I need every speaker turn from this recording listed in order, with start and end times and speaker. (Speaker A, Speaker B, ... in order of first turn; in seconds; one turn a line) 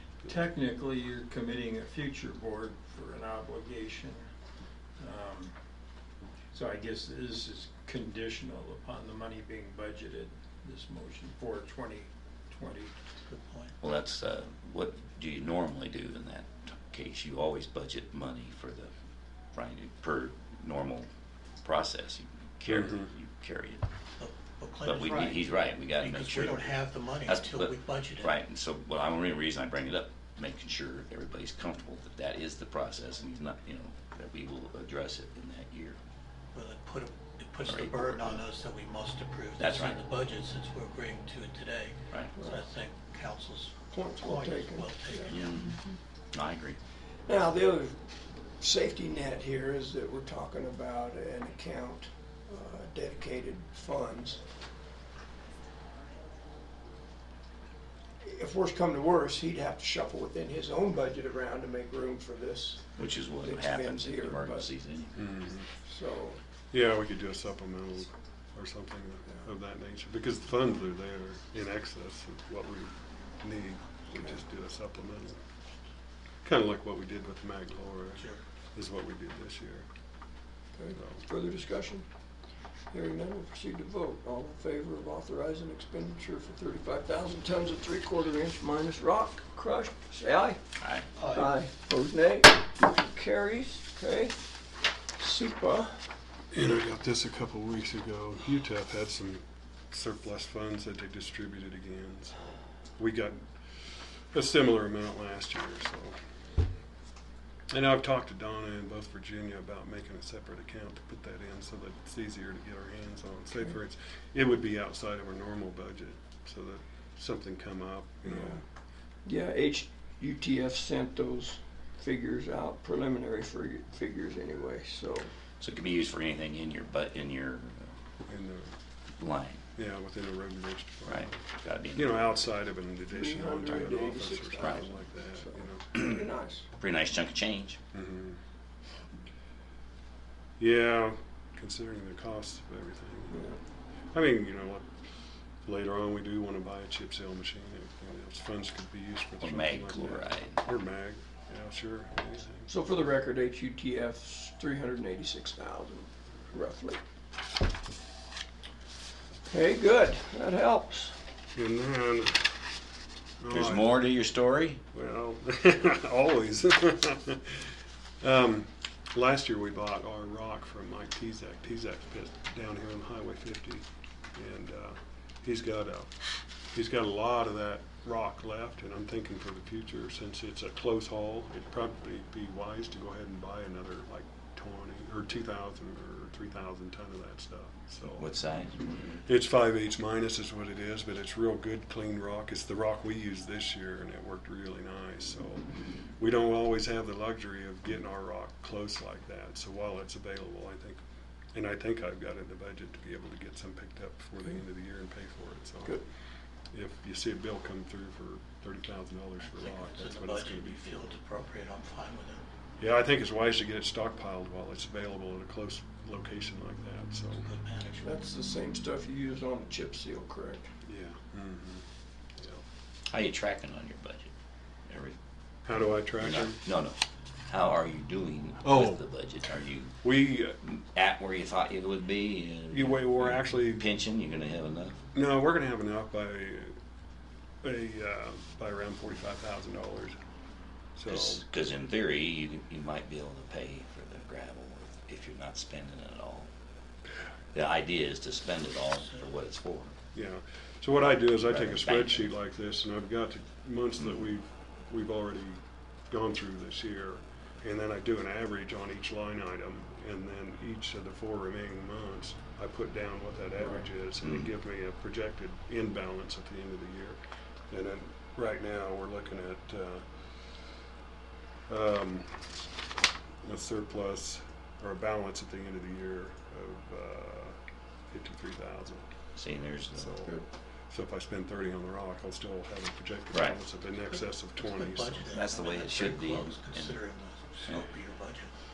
Speaker A: 0.2-4.2
Speaker A: 5.0-5.5
Speaker A: 6.5-12.9
Speaker B: 13.2-13.7
Speaker C: 13.8-18.9
Speaker C: 19.5-21.1
Speaker C: 21.6-23.8
Speaker D: 22.7-23.1
Speaker B: 24.2-25.5
Speaker C: 24.8-36.0
Speaker B: 26.0-28.4
Speaker B: 36.5-45.5
Speaker C: 37.7-38.4
Speaker C: 39.6-40.0
Speaker E: 43.9-45.3
Speaker C: 45.3-45.8
Speaker C: 46.3-46.8
Speaker E: 47.3-48.0
Speaker E: 48.6-54.4
Speaker E: 58.2-64.7
Speaker C: 63.0-65.2
Speaker D: 65.2-65.7
Speaker E: 65.8-66.4
Speaker D: 66.7-75.4
Speaker D: 76.4-79.9
Speaker E: 80.8-82.1
Speaker D: 81.0-81.2
Speaker E: 82.9-90.6
Speaker C: 90.8-91.1
Speaker B: 91.2-91.5
Speaker E: 91.3-94.4
Speaker E: 95.2-96.0
Speaker D: 96.5-102.4
Speaker D: 103.0-103.4
Speaker D: 104.2-106.2
Speaker D: 107.7-118.6
Speaker E: 119.2-125.3
Speaker C: 125.6-127.9
Speaker D: 128.3-128.7
Speaker C: 129.2-129.6
Speaker D: 129.8-131.4
Speaker C: 131.1-132.4
Speaker D: 131.9-136.2
Speaker E: 133.1-136.7
Speaker C: 134.6-134.9
Speaker C: 136.0-136.2
Speaker C: 136.8-137.8
Speaker D: 137.9-138.4
Speaker D: 140.6-143.5
Speaker E: 143.3-143.6
Speaker D: 144.1-144.9
Speaker D: 145.7-152.7
Speaker C: 149.4-150.6
Speaker E: 152.7-157.0
Speaker E: 159.5-161.2
Speaker D: 161.6-162.6
Speaker D: 163.4-164.1
Speaker C: 163.5-164.8
Speaker D: 164.9-167.7
Speaker D: 168.2-188.3
Speaker C: 188.1-189.2
Speaker D: 189.2-195.7
Speaker D: 196.2-201.0
Speaker D: 201.5-206.0
Speaker D: 206.7-211.2
Speaker B: 209.4-212.4
Speaker D: 212.8-217.5
Speaker B: 217.4-218.1
Speaker E: 218.0-220.7
Speaker D: 220.8-221.8
Speaker D: 222.4-222.6
Speaker C: 223.1-224.3
Speaker C: 224.9-225.2
Speaker D: 225.7-226.6
Speaker C: 226.2-227.0
Speaker C: 227.5-235.0
Speaker D: 228.6-229.0
Speaker D: 230.0-230.6
Speaker D: 232.7-233.9
Speaker D: 235.2-236.8
Speaker D: 237.6-240.2
Speaker D: 241.0-241.4
Speaker C: 241.1-246.5
Speaker C: 247.5-249.9
Speaker D: 250.1-267.2
Speaker C: 251.4-252.3
Speaker D: 267.7-270.1
Speaker D: 271.7-272.5
Speaker D: 273.4-277.6
Speaker D: 278.1-279.1
Speaker C: 279.4-280.1
Speaker D: 279.9-280.4
Speaker D: 280.9-285.4
Speaker C: 283.3-283.6
Speaker B: 284.1-288.5
Speaker C: 285.3-287.0